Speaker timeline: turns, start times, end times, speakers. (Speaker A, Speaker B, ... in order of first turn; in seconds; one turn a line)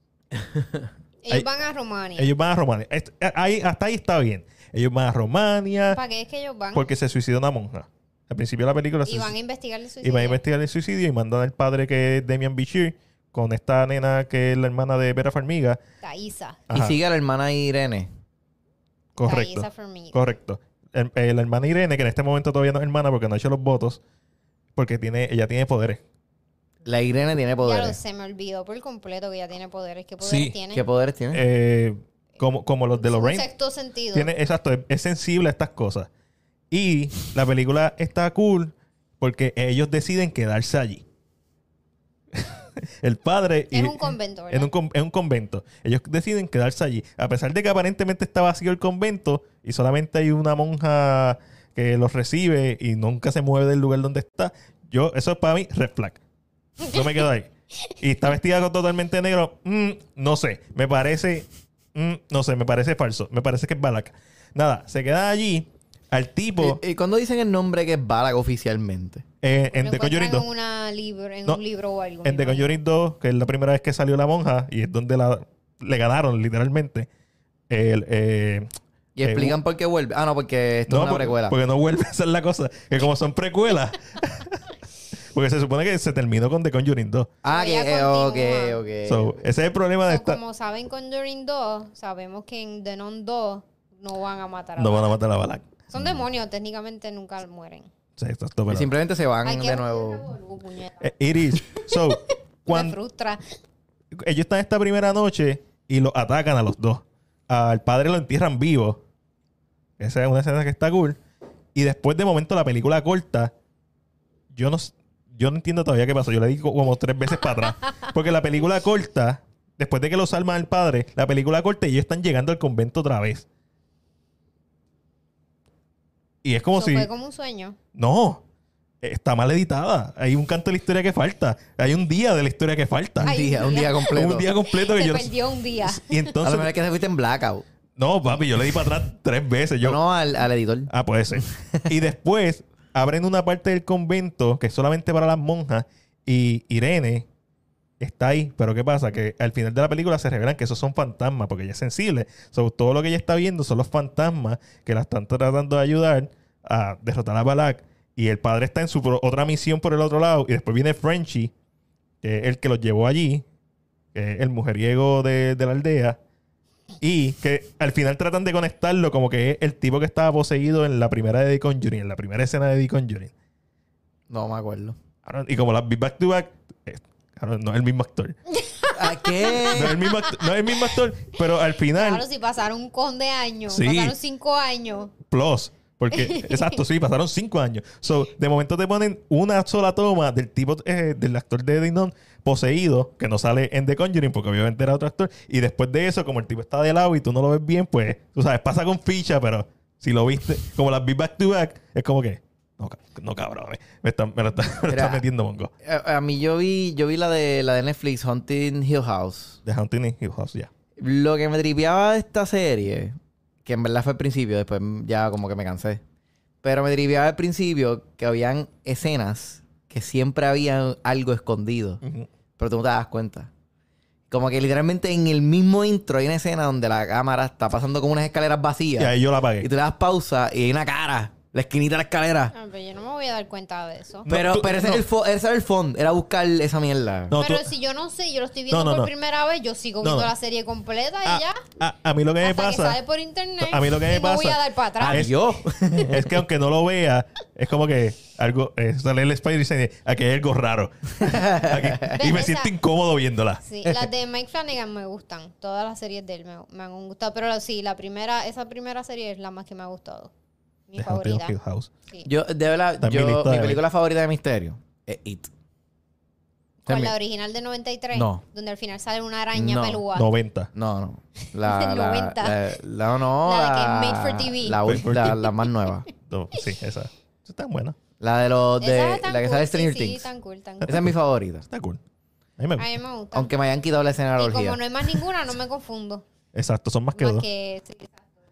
Speaker A: 1.2-2.3
Speaker B: 2.2-6.0
Speaker A: 5.9-6.8
Speaker B: 6.7-9.3
Speaker A: 9.1-10.4
Speaker B: 10.0-15.8
Speaker A: 16.0-16.6
Speaker B: 16.7-17.0
Speaker C: 16.7-18.1
Speaker B: 19.2-24.0
Speaker A: 19.2-20.2
Speaker B: 24.8-26.0
Speaker C: 26.9-28.0
Speaker A: 27.6-30.8
Speaker B: 30.2-30.6
Speaker C: 30.7-31.4
Speaker B: 31.3-33.5
Speaker A: 33.0-34.3
Speaker B: 34.1-36.1
Speaker B: 36.7-41.0
Speaker B: 42.3-56.2
Speaker A: 43.7-44.7
Speaker B: 56.8-66.8
Speaker C: 66.6-69.2
Speaker B: 69.4-70.5
Speaker A: 69.7-72.8
Speaker B: 72.2-77.1
Speaker B: 77.7-78.7
Speaker C: 79.2-81.5
Speaker B: 79.2-79.6
Speaker B: 80.9-84.6
Speaker B: 85.3-87.3
Speaker C: 87.4-89.4
Speaker A: 87.5-88.8
Speaker B: 89.1-90.4
Speaker A: 90.1-95.2
Speaker B: 94.8-95.7
Speaker A: 95.9-97.9
Speaker B: 98.2-98.9
Speaker C: 98.7-100.3
Speaker A: 99.5-103.4
Speaker B: 101.0-103.0
Speaker B: 104.1-109.0
Speaker B: 110.0-111.2
Speaker B: 111.8-113.5
Speaker B: 114.5-123.5
Speaker B: 126.4-127.1
Speaker A: 126.7-127.8
Speaker B: 128.0-128.4
Speaker B: 129.0-133.3
Speaker C: 133.2-134.5
Speaker A: 133.2-136.4
Speaker B: 134.1-136.7
Speaker C: 136.4-137.7
Speaker B: 138.0-140.0
Speaker C: 139.8-141.9
Speaker B: 140.9-147.3
Speaker B: 148.0-161.5
Speaker B: 162.2-163.4
Speaker B: 164.1-166.2
Speaker B: 167.0-173.3
Speaker C: 174.3-175.0
Speaker B: 175.3-178.4
Speaker A: 178.5-180.5
Speaker C: 178.9-179.9
Speaker B: 179.7-182.2
Speaker A: 181.9-185.1
Speaker B: 183.7-184.2
Speaker B: 185.3-205.7
Speaker A: 186.1-186.8
Speaker C: 204.9-205.2
Speaker C: 205.8-209.6
Speaker B: 209.7-210.7
Speaker C: 211.0-216.0
Speaker C: 216.6-222.0
Speaker B: 222.0-222.3
Speaker C: 222.6-223.5
Speaker C: 224.3-232.5
Speaker B: 229.0-229.7
Speaker A: 232.5-234.3
Speaker B: 234.2-235.1
Speaker C: 234.3-237.3
Speaker B: 237.3-237.7
Speaker A: 237.3-241.6
Speaker B: 238.7-239.1
Speaker B: 240.0-240.3
Speaker B: 241.2-243.0
Speaker A: 242.4-245.4
Speaker B: 243.6-245.4
Speaker C: 245.0-246.3
Speaker B: 246.0-253.6
Speaker C: 251.2-252.1
Speaker A: 252.1-252.7
Speaker A: 253.6-260.3
Speaker A: 260.9-261.5
Speaker B: 261.0-261.9
Speaker C: 262.2-265.5
Speaker B: 263.0-263.8
Speaker C: 266.9-267.1
Speaker A: 266.9-270.3
Speaker C: 268.1-268.4
Speaker C: 269.5-270.0
Speaker B: 270.1-270.7
Speaker C: 270.7-276.1
Speaker A: 271.6-272.8
Speaker A: 273.4-274.9
Speaker B: 274.9-275.5
Speaker B: 276.3-278.0
Speaker C: 278.2-280.3
Speaker A: 278.8-281.0
Speaker B: 280.8-281.1
Speaker C: 280.9-281.7
Speaker B: 281.7-282.0
Speaker B: 282.6-282.9
Speaker A: 282.8-283.6
Speaker C: 283.3-285.2
Speaker A: 284.4-286.2
Speaker B: 286.6-287.4
Speaker A: 287.2-288.1